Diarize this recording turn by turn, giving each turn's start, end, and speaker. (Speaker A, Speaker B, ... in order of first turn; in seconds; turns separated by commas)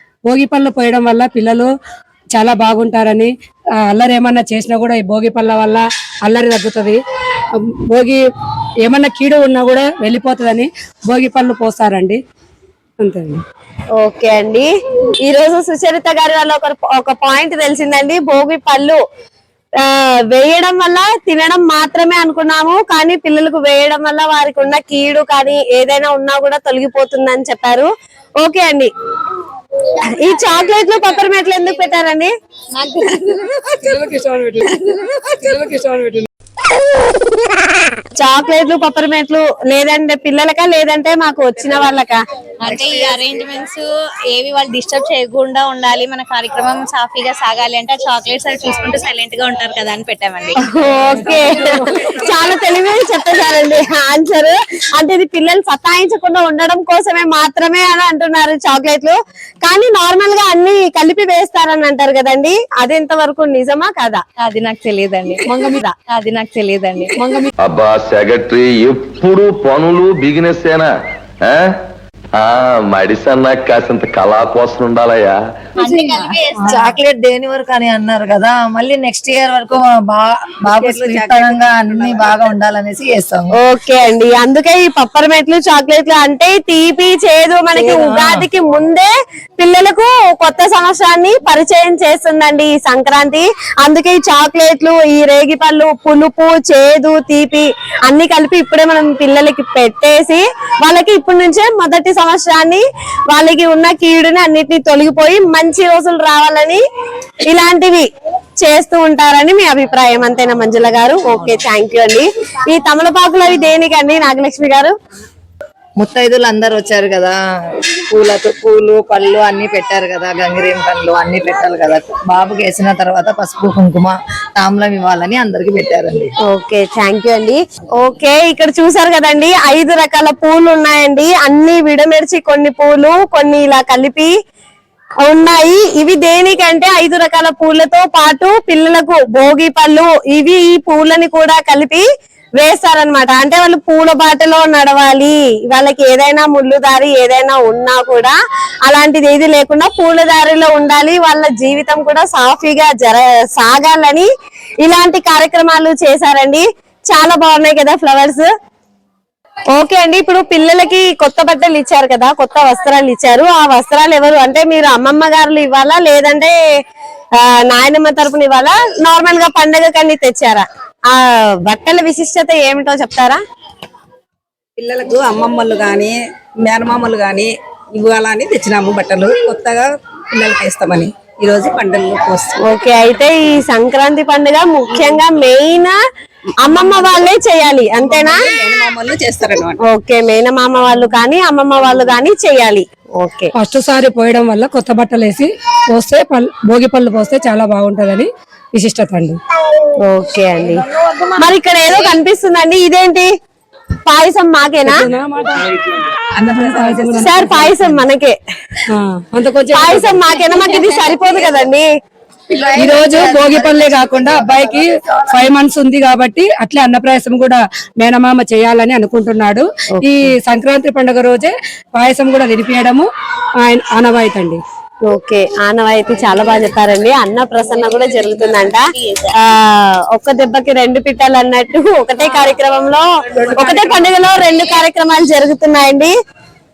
Speaker A: 0.3-1.7, Speaker A: 2.3-3.3, Speaker A: 3.8-7.0, Speaker A: 7.6-8.2, Speaker A: 8.8-12.2, Speaker A: 13.0-13.4, Speaker B: 14.0-14.7, Speaker B: 15.2-19.0, Speaker B: 19.8-27.9, Speaker B: 28.4-28.9, Speaker B: 29.9-32.3, Speaker C: 32.7-33.5, Speaker A: 33.2-36.3, Speaker B: 38.1-42.2, Speaker C: 42.6-51.9, Speaker B: 50.6-64.2, Speaker A: 51.2-52.1, Speaker C: 64.4-67.5, Speaker B: 65.5-65.9, Speaker D: 67.6-70.9, Speaker D: 71.4-71.7, Speaker D: 72.4-75.3, Speaker C: 75.8-76.7, Speaker E: 76.6-83.5, Speaker F: 80.7-82.5, Speaker B: 83.5-106.8, Speaker E: 87.7-88.4, Speaker B: 107.5-108.0, Speaker B: 108.6-114.9, Speaker E: 116.0-126.3, Speaker B: 126.5-134.3, Speaker B: 135.2-142.0, Speaker B: 142.6-154.3, Speaker B: 154.8-158.5, Speaker B: 159.7-166.5, Speaker B: 167.4-173.4, Speaker F: 174.8-182.6, Speaker B: 182.6-186.0, Speaker B: 186.6-188.4, Speaker F: 186.6-187.3, Speaker F: 188.0-189.8, Speaker B: 189.8-193.5, Speaker A: 193.6-199.4, Speaker B: 200.0-200.8, Speaker B: 201.4-203.3, Speaker B: 204.1-205.1, Speaker A: 204.8-205.8, Speaker F: 206.4-207.1, Speaker A: 206.5-207.9, Speaker B: 207.2-208.3, Speaker A: 208.9-210.2, Speaker B: 209.7-211.9, Speaker E: 212.5-215.4, Speaker A: 212.8-223.1, Speaker B: 219.9-220.3, Speaker A: 223.6-224.6, Speaker B: 225.1-236.1